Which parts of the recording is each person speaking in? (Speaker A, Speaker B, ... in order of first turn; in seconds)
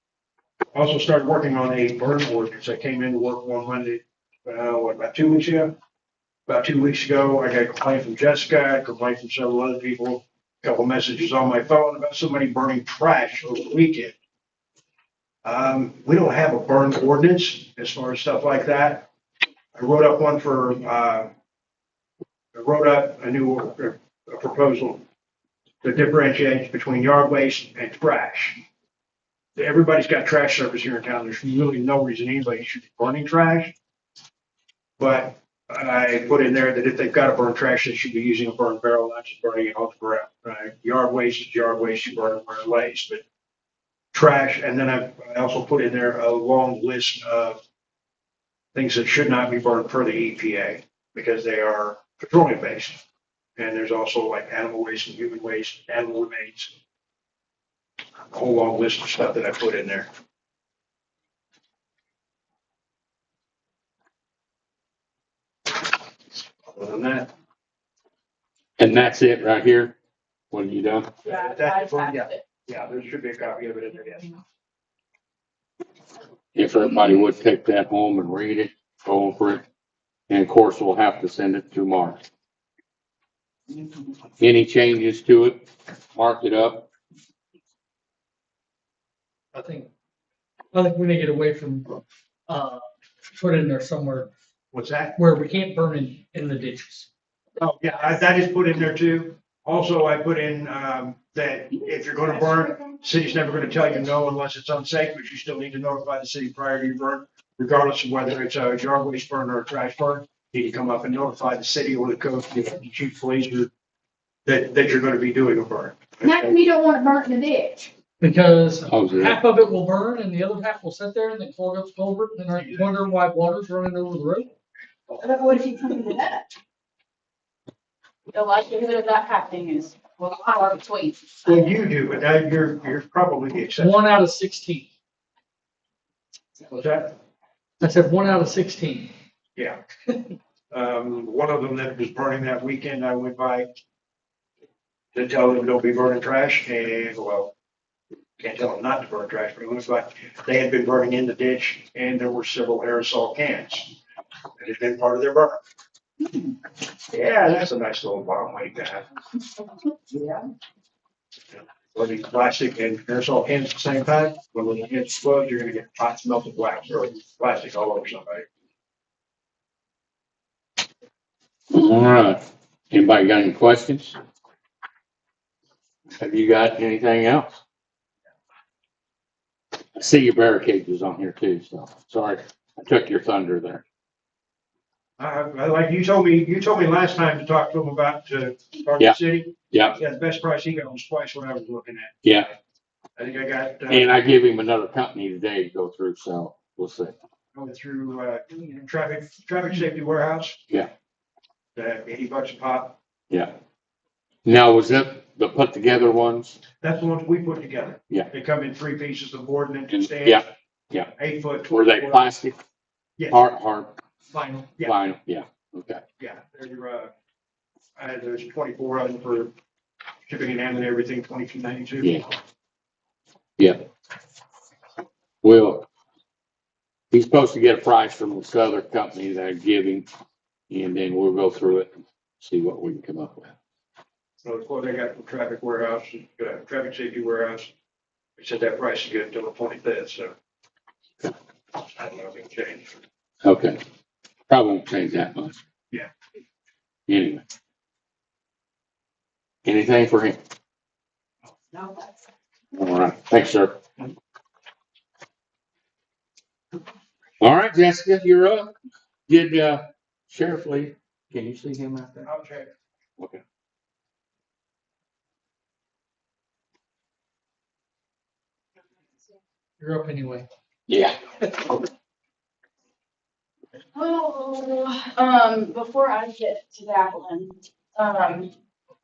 Speaker A: 0.7-5.7, 6.5-14.2, 15.4-19.1, 19.7-21.3, 22.5-25.0, 25.8-28.6, 29.6-33.7, 35.0-43.2, 44.1-47.6, 48.7-53.0, 53.6-56.7, 58.3-60.1, 66.7-67.3, 71.2-74.4, 94.7-95.2, 97.6-113.7, 114.5-116.6, 122.6-122.9, 131.4-133.9, 136.7-137.1, 140.7-143.7, 145.1-147.5, 148.4-153.9, 154.6-155.6, 157.1-159.1, 161.5-168.4, 185.2-192.5, 193.2-194.1, 197.5-200.6, 201.7-203.0, 206.8-210.4, 211.2-212.3, 216.2-217.1, 218.0-219.5, 220.2-222.2, 234.4-237.7, 238.4-240.3, 241.8-242.9, 262.2-262.7
Speaker B: 68.8-69.9, 70.5-71.1, 76.5-79.6, 80.3-82.2, 84.4-86.9, 118.9-119.4, 171.7-174.2, 176.2-177.6, 179.9-183.8, 189.7-189.9, 192.2-192.5, 193.9-197.1, 204.4-206.6, 210.1-211.1, 211.7-212.6, 213.3-213.9, 214.8-216.0, 222.0-222.2, 223.6-223.9, 225.4-225.8, 227.1-230.1, 230.7-233.5, 243.4-243.8, 244.5-245.6, 247.1-247.4, 249.6-250.4, 252.7-253.8, 257.4-258.7, 259.3-262.3, 270.9-271.7
Speaker C: 71.2-72.4, 128.3-131.5, 273.9-278.5
Speaker D: 89.5-89.9, 90.7-94.3, 95.2-97.1, 118.2-124.5, 133.8-134.9, 137.8-139.1, 214.3-214.7, 269.8-270.5
Speaker E: 116.2-117.9, 125.2-126.5